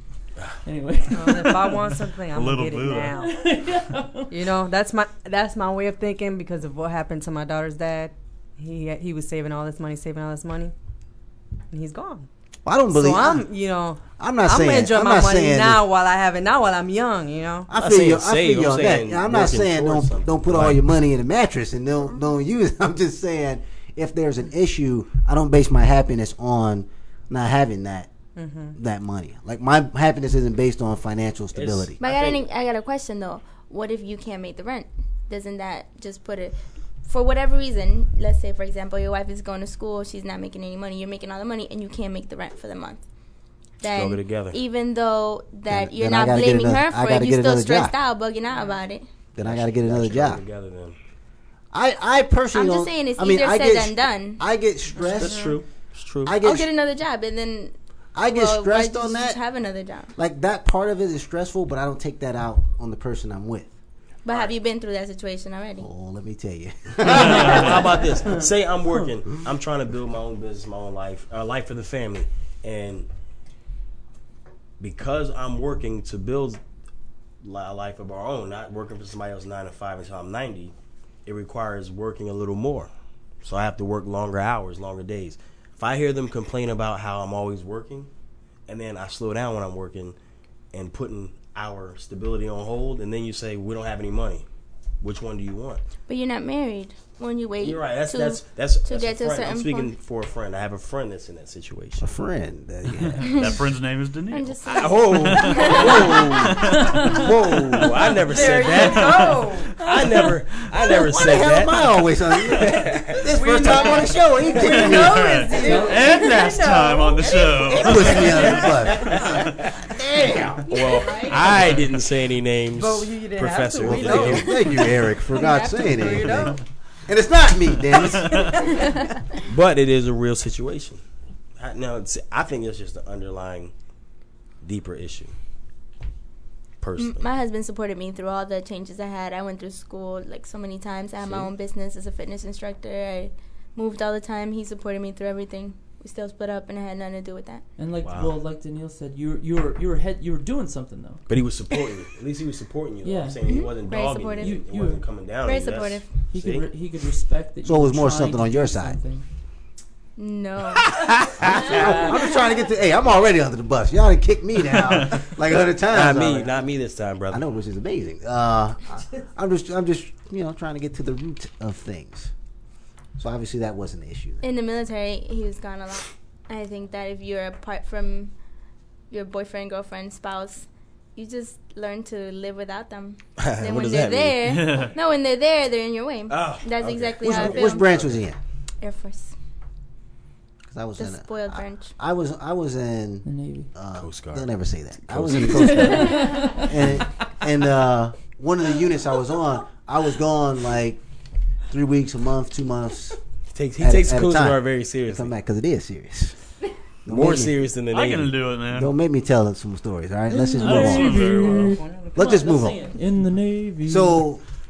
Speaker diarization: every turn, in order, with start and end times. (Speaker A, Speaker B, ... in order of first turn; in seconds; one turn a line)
Speaker A: 0.6-2.0
Speaker B: 1.1-3.3
Speaker C: 2.3-3.1
Speaker A: 3.0-4.4
Speaker B: 4.3-10.7
Speaker B: 11.7-12.3
Speaker D: 12.7-13.5
Speaker B: 12.9-17.7
Speaker D: 14.2-15.8
Speaker D: 17.7-28.1
Speaker E: 17.7-20.8
Speaker B: 28.4-28.8
Speaker D: 28.8-32.0
Speaker E: 31.5-32.4
Speaker F: 32.0-43.0
Speaker F: 43.8-49.1
Speaker E: 43.8-44.6
Speaker D: 45.7-48.0
Speaker D: 49.4-50.4
Speaker E: 49.4-51.0
Speaker D: 51.7-55.5
Speaker F: 52.5-54.4
Speaker E: 55.1-56.4
Speaker B: 55.2-55.6
Speaker D: 56.2-56.7
Speaker F: 56.4-57.8
Speaker D: 58.1-59.4
Speaker F: 58.3-60.1
Speaker D: 60.2-63.7
Speaker F: 64.2-65.9
Speaker D: 65.8-68.0
Speaker E: 67.0-73.1
Speaker C: 67.3-67.7
Speaker E: 74.8-76.6
Speaker E: 77.4-80.7
Speaker E: 81.2-82.9
Speaker E: 83.4-88.1
Speaker E: 88.7-90.2
Speaker E: 90.7-94.5
Speaker E: 95.0-95.8
Speaker F: 96.1-99.9
Speaker E: 97.6-102.2
Speaker D: 102.0-103.3
Speaker C: 103.0-107.1
Speaker F: 103.2-103.6
Speaker F: 104.3-106.2
Speaker E: 104.7-106.5
Speaker D: 105.7-108.0
Speaker A: 107.0-107.4
Speaker E: 107.3-114.0
Speaker B: 108.3-109.7
Speaker C: 108.7-109.7
Speaker A: 110.0-110.3
Speaker D: 110.9-115.9
Speaker B: 113.3-119.4
Speaker C: 114.6-118.8
Speaker A: 115.7-116.1
Speaker D: 117.7-120.8
Speaker E: 118.7-119.8
Speaker E: 120.7-125.0
Speaker B: 120.8-121.4
Speaker C: 121.5-121.8
Speaker B: 122.8-126.6
Speaker D: 123.8-128.5
Speaker F: 125.3-126.1
Speaker C: 128.1-128.6
Speaker E: 129.4-131.0
Speaker E: 131.6-133.7
Speaker E: 134.6-135.3
Speaker E: 136.8-137.2
Speaker F: 137.0-147.6
Speaker E: 141.2-141.5
Speaker A: 147.8-151.2
Speaker E: 148.0-148.4
Speaker E: 151.3-156.7
Speaker A: 153.0-155.1
Speaker F: 153.5-154.6
Speaker F: 155.5-156.1
Speaker A: 156.3-159.2
Speaker D: 157.6-159.0
Speaker F: 160.2-160.9
Speaker D: 160.9-166.7
Speaker A: 161.8-162.2
Speaker E: 165.9-167.5
Speaker D: 167.3-172.3
Speaker D: 173.2-174.4
Speaker F: 174.4-178.3
Speaker F: 179.1-187.9
Speaker E: 183.4-184.4
Speaker C: 184.5-184.9
Speaker E: 186.3-188.2
Speaker D: 187.2-188.4
Speaker F: 188.8-189.3
Speaker D: 190.7-201.0
Speaker F: 191.0-191.9
Speaker A: 193.2-193.7
Speaker E: 193.9-194.6
Speaker E: 195.1-196.0
Speaker A: 195.5-196.7
Speaker D: 201.7-203.2
Speaker E: 203.5-205.3
Speaker D: 203.8-206.4
Speaker D: 207.1-207.5
Speaker E: 207.1-208.4
Speaker C: 207.9-208.9
Speaker D: 208.7-211.3
Speaker A: 210.3-214.3
Speaker C: 210.6-211.8
Speaker B: 211.4-212.8
Speaker D: 212.2-212.8
Speaker D: 213.9-214.4